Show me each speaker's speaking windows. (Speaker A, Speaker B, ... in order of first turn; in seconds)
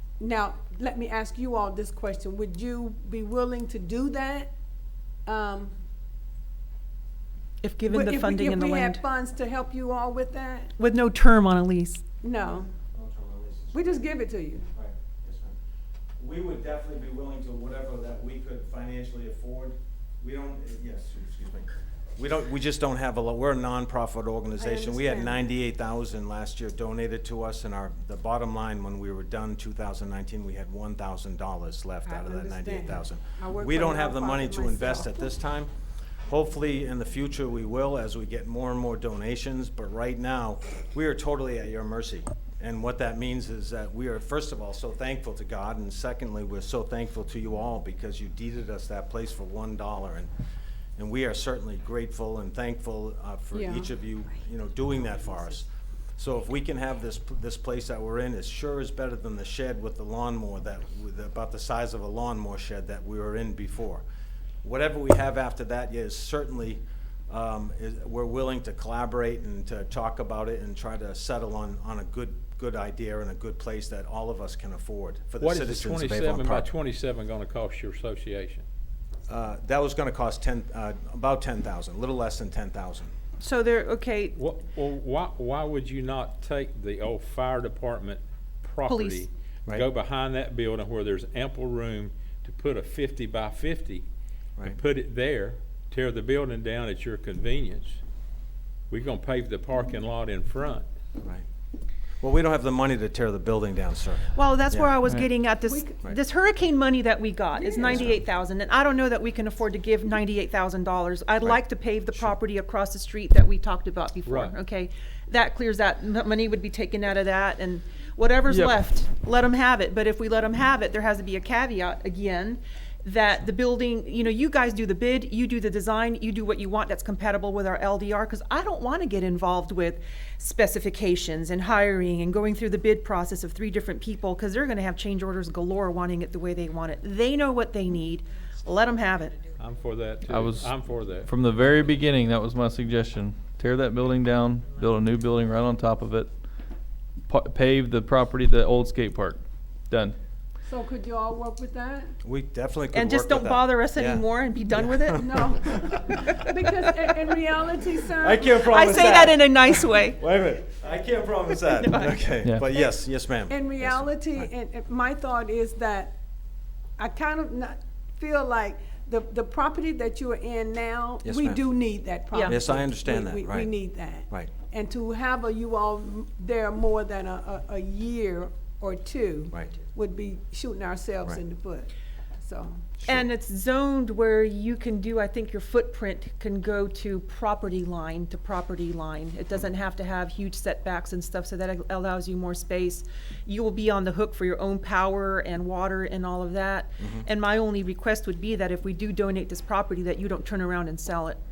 Speaker A: 0.2-4.5, 5.2-5.7, 7.9-10.7, 12.2-12.7, 13.7-14.7, 24.6-25.5, 32.0-35.3, 53.5-53.9, 105.6-106.0, 107.5-108.1, 150.6-152.1, 155.1-158.7, 163.5-166.2, 167.0-182.8
Speaker B: 7.6-9.0, 10.8-12.0, 83.4-84.4, 88.9-89.2, 104.3-139.4, 152.9-155.2, 158.6-160.2, 161.5-162.2, 172.3-172.6, 183.1-201.4
Speaker C: 12.4-14.1, 14.7-15.6, 16.2-35.7, 36.2-50.3, 51.0-64.0, 64.6-76.7, 79.3-83.1, 101.2-101.4, 102.2-105.0, 107.8-108.2, 111.4-112.3, 152.2-155.3, 158.2-164.4, 171.2-171.6, 172.4-173.7, 183.0-183.3, 197.0-197.2
Speaker D: 75.4-78.6, 84.3-94.0, 94.6-98.0, 98.9-100.8, 114.2-114.5, 139.6-141.3
Speaker E: 118.5-118.7, 140.2-146.3, 147.3-150.2